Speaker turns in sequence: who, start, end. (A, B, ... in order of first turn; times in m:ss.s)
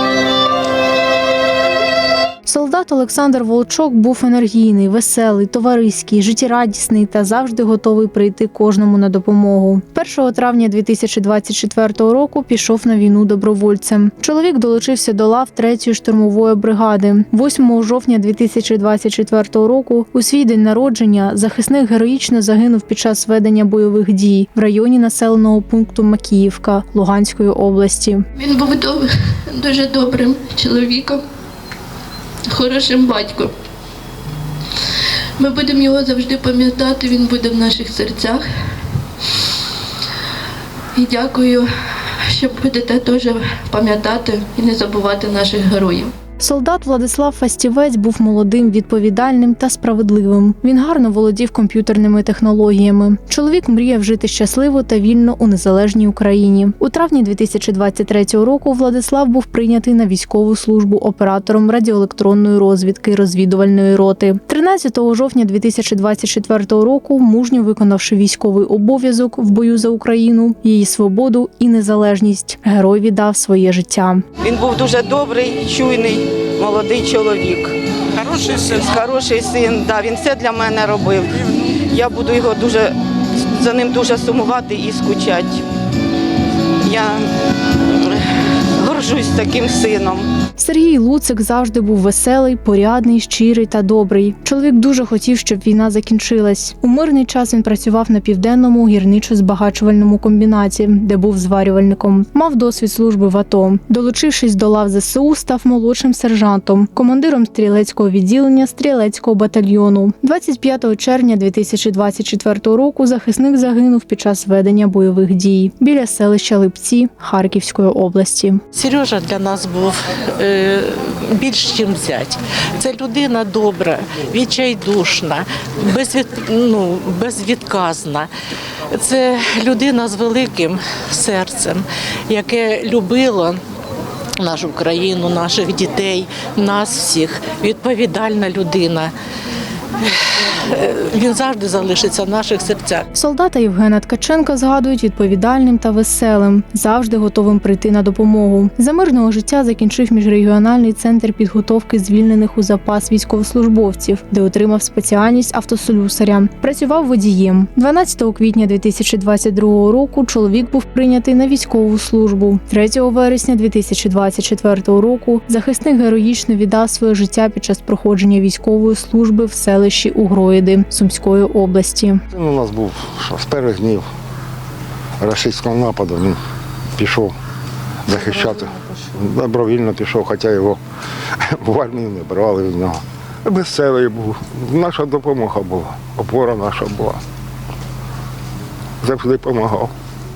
0:02.4-0:28.2 A
0:28.4-0:31.2 B
0:32.5-0:33.5 B
0:35.4-0:38.5 B
0:40.9-0:46.1 B
0:46.4-1:14.2 A
1:14.4-1:22.9 C
1:23.5-1:25.6 C
1:26.8-1:27.2 C
1:28.0-1:28.2 C
1:28.8-1:30.3 C
1:30.6-1:58.6 A
1:58.7-2:08.3 D
2:08.9-2:13.6 D
2:14.4-2:19.1 D
2:20.0-2:23.0 D
2:23.1-2:52.2 A
2:52.3-2:54.1 E
2:55.2-2:56.4 E
2:57.0-2:57.3 E
2:58.0-3:00.8 E
3:01.4-3:07.2 E
3:09.0-3:09.9 E